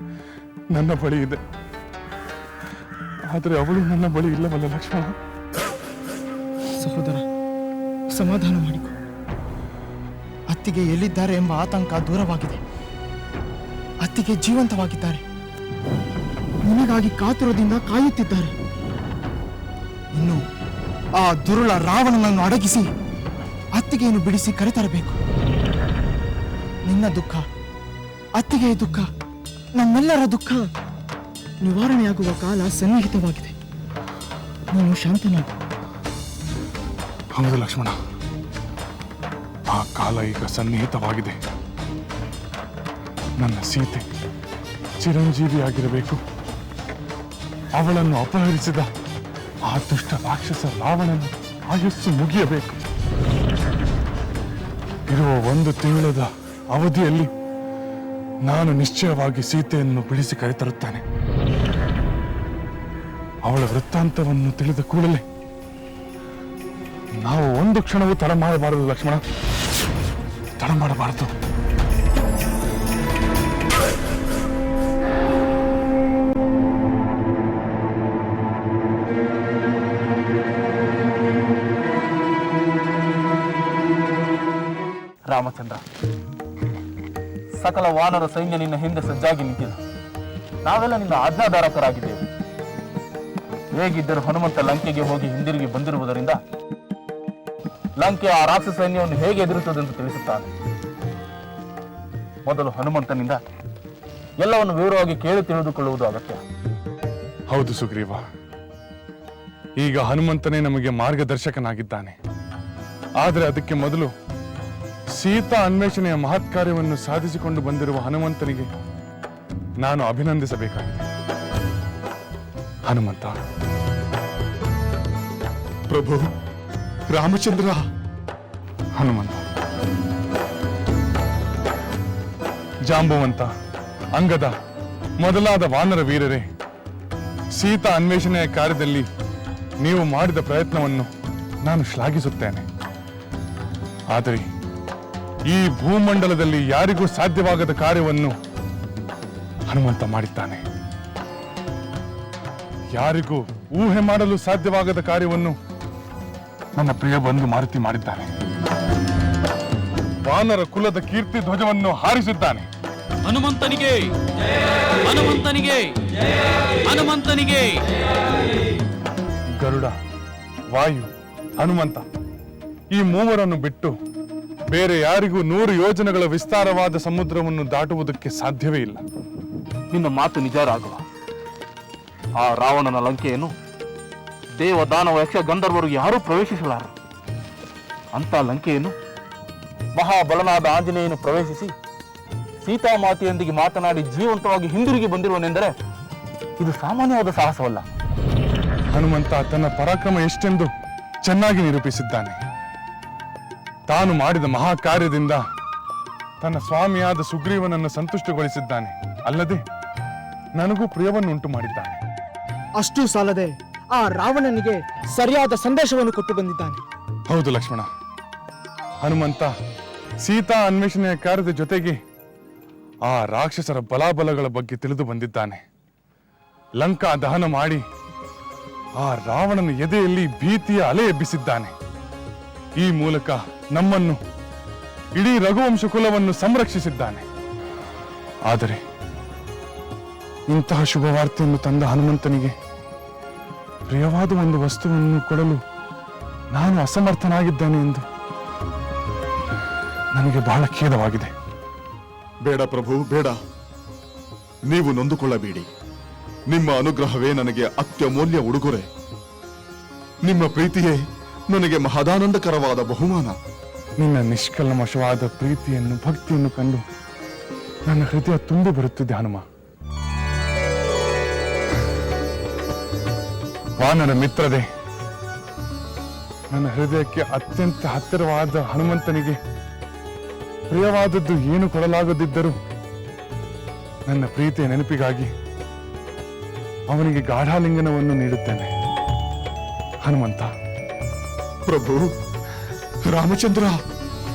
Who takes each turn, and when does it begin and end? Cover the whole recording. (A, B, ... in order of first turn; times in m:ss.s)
0:00.7-0:01.4 A
0:03.3-0:05.1 A
0:06.8-0:07.2 B
0:08.2-0:08.9 B
0:10.5-0:12.6 B
0:14.0-0:15.2 B
0:16.6-0:18.5 B
0:20.1-0:20.4 B
0:21.2-0:22.9 B
0:23.8-0:25.2 B
0:26.9-0:27.4 B
0:28.4-0:29.1 B
0:29.8-0:30.6 B
0:31.6-0:33.5 B
0:34.7-0:35.5 B
0:37.4-0:37.9 A
0:39.7-0:41.4 A
0:43.4-0:44.0 A
0:45.0-0:46.2 A
0:47.8-0:48.9 A
0:49.7-0:52.8 A
0:55.1-0:57.3 A
0:58.5-1:01.0 A
1:03.4-1:05.2 A
1:07.2-1:09.2 A
1:10.6-1:11.3 A
1:25.3-1:25.8 C
1:27.5-1:29.8 C
1:30.6-1:32.2 C
1:33.7-1:36.4 C
1:38.0-1:40.5 C
1:42.4-1:43.4 C
1:44.4-1:46.4 C
1:47.5-1:48.2 A
1:49.8-1:52.2 A
1:53.2-1:54.1 A
1:55.2-1:58.7 A
1:59.8-2:01.0 A
2:02.9-2:03.3 A
2:05.9-2:06.3 D
2:07.1-2:07.8 D
2:09.0-2:09.4 A
2:12.9-2:13.5 A
2:14.2-2:14.5 A
2:15.2-2:16.4 A
2:17.6-2:19.0 A
2:19.8-2:21.1 A
2:21.6-2:22.6 A
2:24.1-2:24.4 A
2:25.5-2:28.3 A
2:29.7-2:30.6 A
2:32.9-2:35.5 A
2:36.8-2:38.3 A
2:40.2-2:42.6 A
2:43.2-2:44.1 E
2:45.0-2:46.0 E
2:46.9-2:47.8 E
2:49.6-2:49.9 A
2:50.7-2:51.1 A
2:51.6-2:52.0 A
2:52.9-2:53.9 A
2:54.7-2:59.0 A
2:59.9-3:01.0 C
3:02.4-3:03.5 C
3:04.6-3:06.9 C
3:08.1-3:08.9 C
3:09.9-3:11.7 C
3:12.6-3:15.7 C
3:16.6-3:17.8 C
3:18.9-3:20.7 A
3:21.2-3:22.4 A
3:23.9-3:25.4 A
3:26.4-3:29.6 A
3:30.6-3:32.0 A
3:32.8-3:36.8 B
3:37.3-3:37.8 A
3:39.0-3:39.5 A
3:40.2-3:42.0 A
3:43.1-3:45.6 A
3:46.8-3:47.8 A
3:49.0-3:51.7 A
3:52.8-3:54.2 A
3:55.2-3:57.2 A
3:58.5-3:58.8 A
4:00.5-4:02.5 A
4:03.9-4:05.6 A
4:06.5-4:08.0 A
4:10.2-4:11.3 A
4:12.4-4:13.4 D
4:14.7-4:15.7 D
4:16.5-4:18.9 D
4:20.2-4:23.4 D
4:24.0-4:26.8 A
4:27.9-4:29.4 A
4:33.8-4:34.6 A
4:36.5-4:39.4 A
4:40.7-4:42.5 A
4:44.1-4:45.3 A
4:46.9-4:48.7 A
4:50.0-4:50.5 A
4:51.6-4:52.1 D
4:53.1-4:53.8 D